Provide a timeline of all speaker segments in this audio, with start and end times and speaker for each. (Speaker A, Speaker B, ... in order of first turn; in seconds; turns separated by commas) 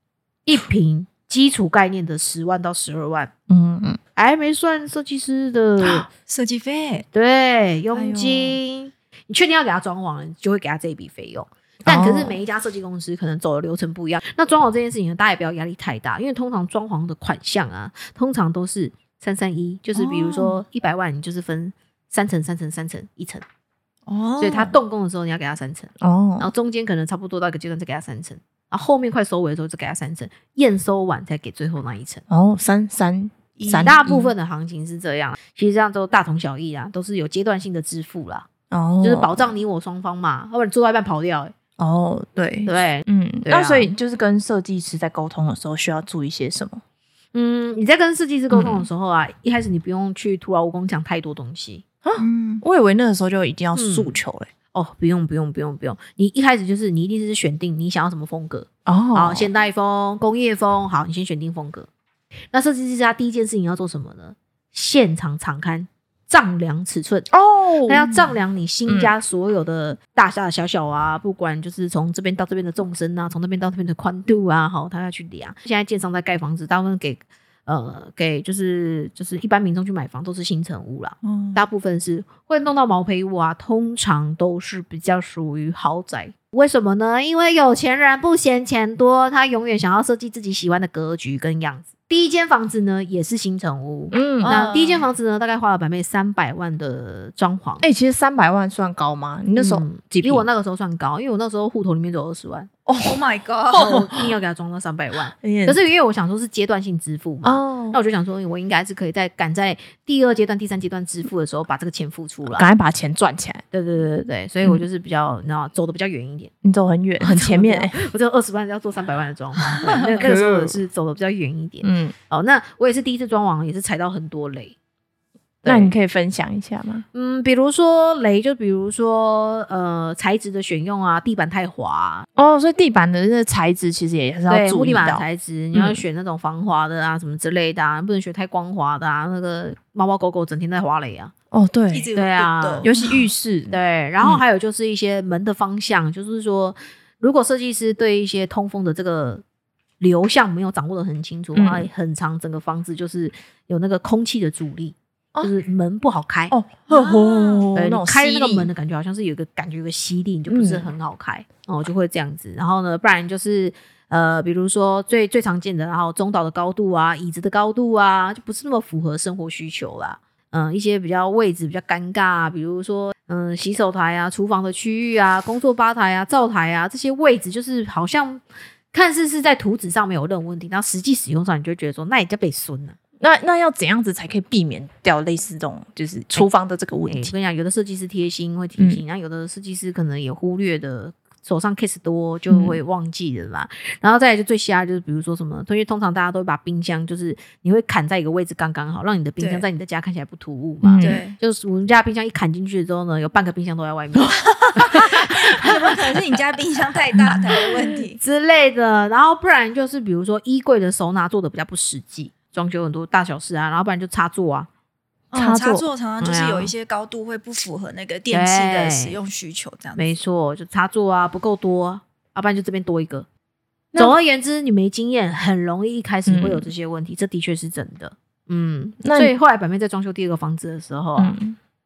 Speaker A: 0.5-3.3, Speaker B: 3.5-4.0, Speaker A: 4.2-6.1, Speaker C: 6.2-7.0, Speaker A: 7.1-23.4, Speaker B: 8.0-8.3, Speaker C: 8.2-8.5, Speaker B: 11.8-12.4, Speaker C: 19.9-20.6, Speaker C: 24.1-24.8, Speaker A: 24.4-32.2, Speaker B: 26.0-26.5, Speaker B: 32.3-34.3, Speaker C: 33.6-34.0, Speaker A: 33.8-38.5, Speaker B: 38.7-39.4, Speaker A: 39.0-41.5, Speaker B: 41.8-46.8, Speaker A: 42.6-43.9, Speaker A: 47.3-51.8, Speaker B: 48.5-48.9, Speaker B: 52.0-54.5, Speaker C: 52.2-52.6, Speaker A: 53.7-54.2, Speaker A: 54.7-61.9, Speaker B: 58.9-59.5, Speaker A: 62.5-67.3, Speaker B: 67.3-68.2, Speaker A: 67.9-97.8, Speaker B: 68.9-69.1, Speaker C: 81.2-81.6, Speaker B: 94.1-94.6, Speaker C: 94.4-95.0, Speaker B: 97.8-100.4, Speaker A: 99.6-102.7, Speaker B: 102.9-103.2, Speaker C: 103.0-104.1, Speaker A: 103.7-112.7, Speaker B: 105.4-105.8, Speaker B: 107.4-108.0, Speaker B: 112.5-113.6, Speaker A: 113.7-116.5, Speaker B: 116.6-118.0, Speaker A: 117.2-124.8, Speaker C: 119.8-120.1, Speaker B: 120.1-120.8, Speaker B: 121.8-122.1, Speaker A: 125.6-125.9, Speaker B: 125.6-127.0, Speaker A: 127.1-132.2, Speaker B: 132.3-136.0, Speaker A: 134.5-141.3, Speaker B: 141.5-142.1, Speaker C: 141.9-143.2, Speaker A: 142.1-142.9, Speaker B: 142.8-144.4, Speaker A: 143.7-149.4, Speaker A: 150.0-156.5, Speaker B: 151.5-151.9, Speaker B: 156.5-158.7, Speaker C: 156.9-157.7, Speaker A: 157.7-178.4, Speaker B: 160.5-160.9, Speaker A: 178.9-183.0, Speaker B: 183.2-187.3, Speaker A: 187.0-206.0, Speaker B: 192.5-192.8, Speaker C: 199.4-199.6, Speaker B: 200.8-201.2, Speaker C: 201.0-201.4, Speaker C: 204.3-208.2, Speaker A: 207.6-214.7, Speaker C: 215.3-220.2, Speaker B: 215.3-215.8, Speaker A: 216.2-216.7, Speaker A: 218.3-219.2, Speaker A: 219.9-223.3, Speaker A: 223.9-231.4, Speaker B: 226.3-226.7, Speaker B: 229.0-229.3, Speaker B: 231.2-231.6